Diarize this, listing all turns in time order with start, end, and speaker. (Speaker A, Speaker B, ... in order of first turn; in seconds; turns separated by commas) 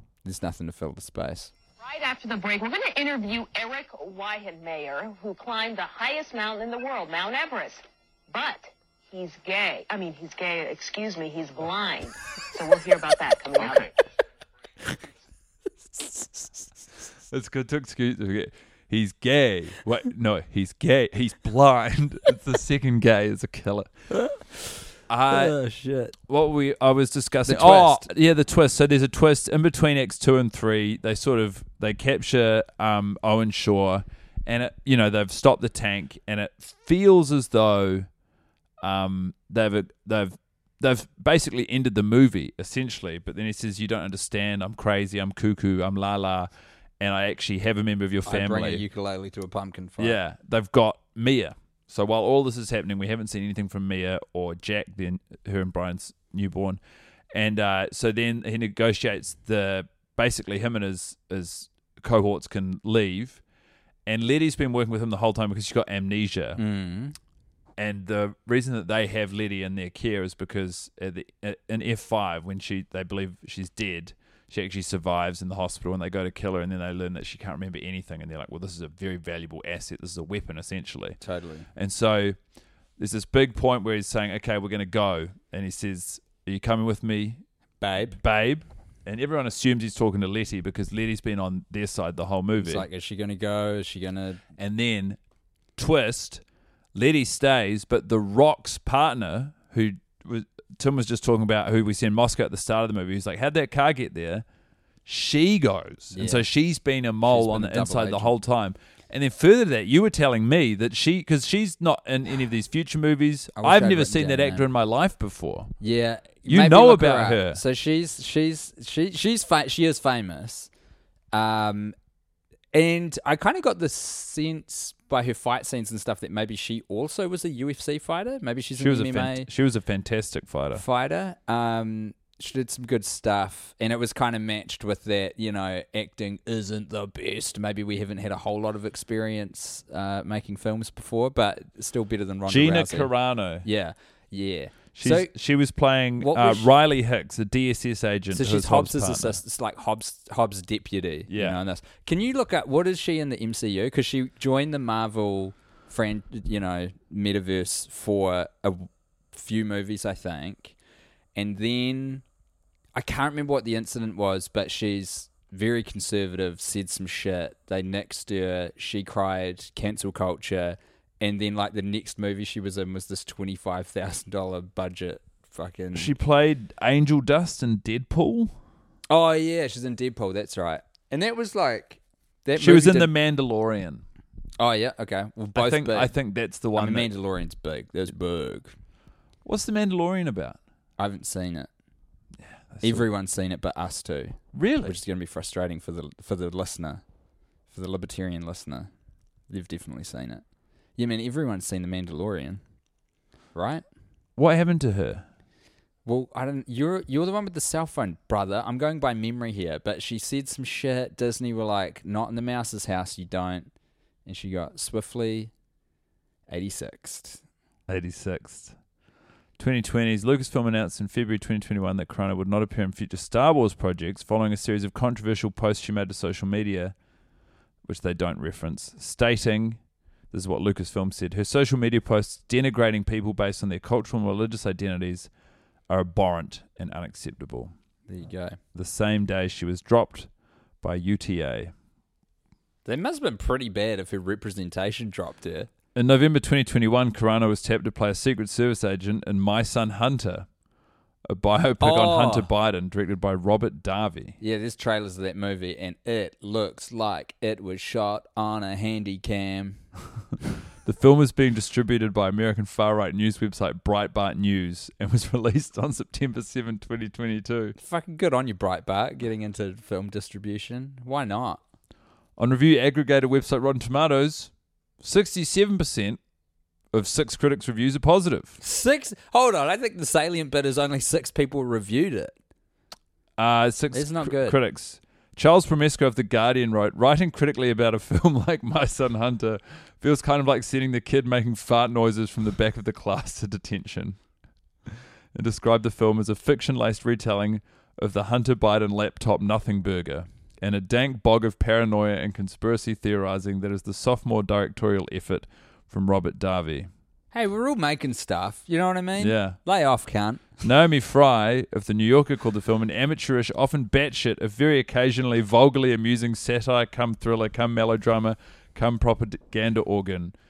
Speaker A: 0.2-1.5, Speaker B: 1.8-13.9, Speaker C: 17.3-23.9, Speaker A: 24.1-24.8, Speaker C: 25.1-25.6, Speaker A: 25.3-26.2, Speaker C: 26.3-38.1, Speaker A: 27.5-28.1, Speaker C: 38.8-46.5, Speaker C: 47.0-48.8, Speaker A: 48.3-50.2, Speaker C: 50.0-56.8, Speaker C: 57.3-63.4, Speaker C: 64.1-66.6, Speaker A: 66.6-67.2, Speaker C: 67.8-81.2, Speaker A: 81.2-81.7, Speaker C: 81.8-82.4, Speaker C: 83.0-87.4, Speaker A: 87.8-88.2, Speaker C: 88.1-92.9, Speaker A: 92.6-94.4, Speaker C: 94.6-95.2, Speaker C: 95.8-96.4, Speaker C: 97.0-104.4, Speaker C: 105.1-115.7, Speaker A: 106.1-106.5, Speaker A: 107.3-108.3, Speaker A: 113.6-114.7, Speaker A: 115.8-120.7, Speaker C: 116.5-117.6, Speaker A: 121.3-122.0, Speaker A: 122.7-129.5, Speaker C: 128.8-130.8, Speaker A: 130.8-143.1, Speaker C: 142.5-143.7, Speaker A: 143.6-145.3, Speaker C: 145.0-149.4, Speaker A: 146.2-146.7, Speaker A: 148.3-160.8, Speaker C: 151.3-151.6, Speaker A: 161.4-162.2, Speaker A: 162.9-176.1, Speaker C: 175.9-178.5, Speaker A: 179.1-183.1, Speaker C: 182.6-184.0, Speaker A: 184.6-186.1, Speaker C: 185.6-187.1, Speaker A: 186.8-188.8, Speaker C: 189.4-190.6, Speaker A: 191.0-191.7, Speaker C: 192.7-193.1, Speaker A: 192.8-197.0, Speaker C: 194.5-194.9, Speaker A: 197.7-198.9, Speaker A: 199.5-200.4, Speaker A: 201.0-202.6, Speaker A: 203.6-203.8, Speaker C: 204.4-205.2, Speaker A: 206.1-213.7, Speaker A: 214.3-215.5, Speaker A: 216.5-217.4, Speaker C: 217.9-218.7, Speaker C: 219.6-226.9, Speaker C: 227.8-229.8, Speaker C: 230.3-235.3, Speaker C: 235.9-237.7, Speaker A: 238.1-238.6, Speaker C: 238.8-240.3, Speaker C: 240.8-241.7, Speaker A: 242.8-245.7, Speaker C: 245.9-250.5, Speaker C: 251.3-254.4, Speaker A: 251.8-252.5, Speaker A: 254.4-259.8, Speaker C: 260.8-267.8, Speaker A: 267.8-271.6, Speaker C: 272.4-274.5, Speaker C: 275.0-276.2, Speaker C: 276.9-278.6, Speaker A: 278.6-282.4, Speaker C: 283.4-294.2, Speaker A: 283.9-284.6, Speaker C: 295.4-306.9, Speaker A: 307.3-310.5, Speaker C: 309.2-309.6, Speaker C: 310.6-320.3